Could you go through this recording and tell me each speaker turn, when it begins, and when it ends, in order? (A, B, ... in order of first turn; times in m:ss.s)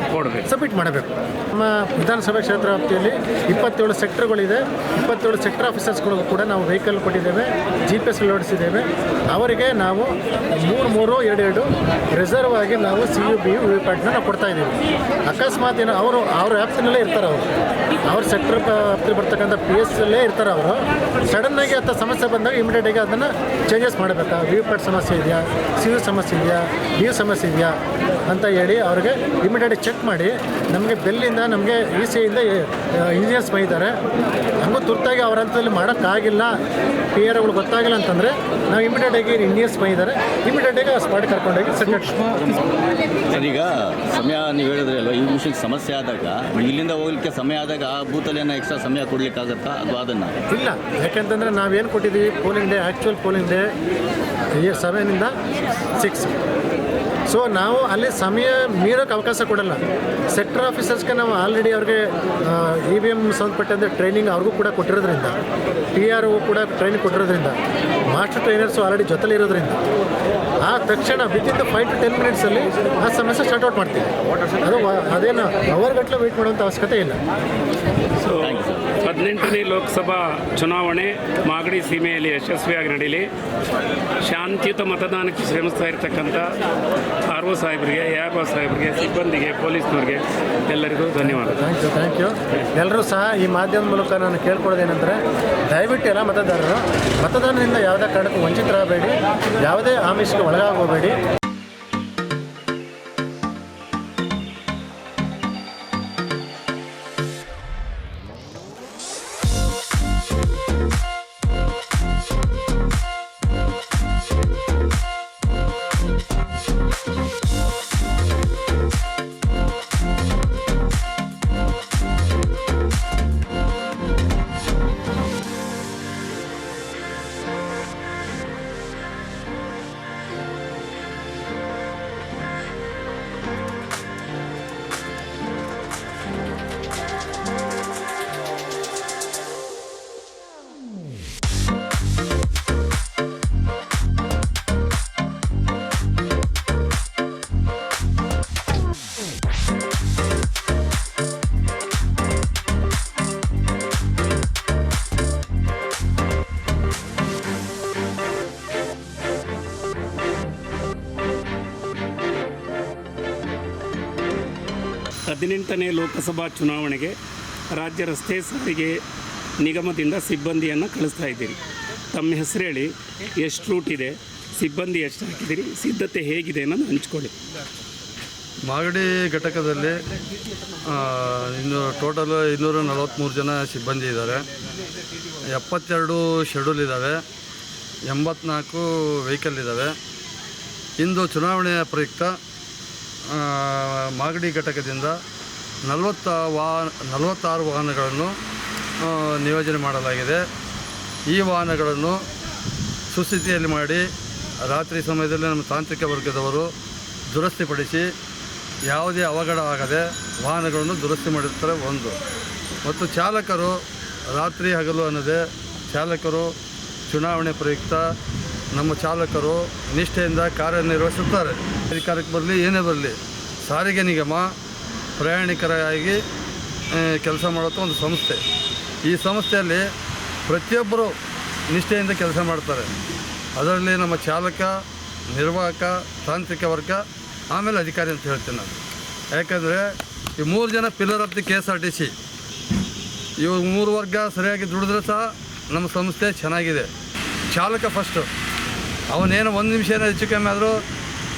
0:00.1-0:00.5 A
0:00.4-0:17.4 B
0:18.0-0:27.7 B
0:28.2-0:34.0 B
0:34.6-0:36.5 B
0:37.1-0:42.3 B
0:43.3-0:50.4 C
0:50.5-0:53.6 B
0:54.6-0:55.3 B
0:55.9-0:56.4 B
0:57.3-0:59.8 B
1:00.3-1:05.4 B
1:05.9-1:07.6 B
1:08.1-1:09.8 B
1:10.6-1:17.2 B
1:18.2-1:23.3 A
1:18.5-1:18.8 C
1:24.2-1:26.5 A
1:27.3-1:31.6 A
1:31.2-1:41.2 B
2:45.3-2:47.2 A
2:47.7-2:49.0 A
2:49.6-2:51.6 A
2:52.1-2:57.3 A
2:58.6-3:00.0 D
3:00.8-3:04.4 D
3:05.5-3:07.2 D
3:08.0-3:10.0 D
3:11.0-3:12.4 D
3:13.3-3:15.2 D
3:15.8-3:18.4 D
3:19.0-3:20.4 D
3:21.3-3:22.2 D
3:23.1-3:24.1 D
3:24.6-3:26.7 D
3:27.3-3:28.1 D
3:28.8-3:32.2 D
3:32.8-3:36.5 D
3:37.1-3:38.0 D
3:38.7-3:44.5 D
3:45.2-3:46.2 D
3:46.9-3:48.4 D
3:49.0-3:49.9 D
3:50.4-3:51.2 D
3:51.7-3:52.9 D
3:53.6-3:54.8 D
3:55.3-3:58.8 D
3:59.3-4:02.1 D
4:03.4-4:06.9 D
4:07.5-4:08.3 D
4:09.1-4:10.8 D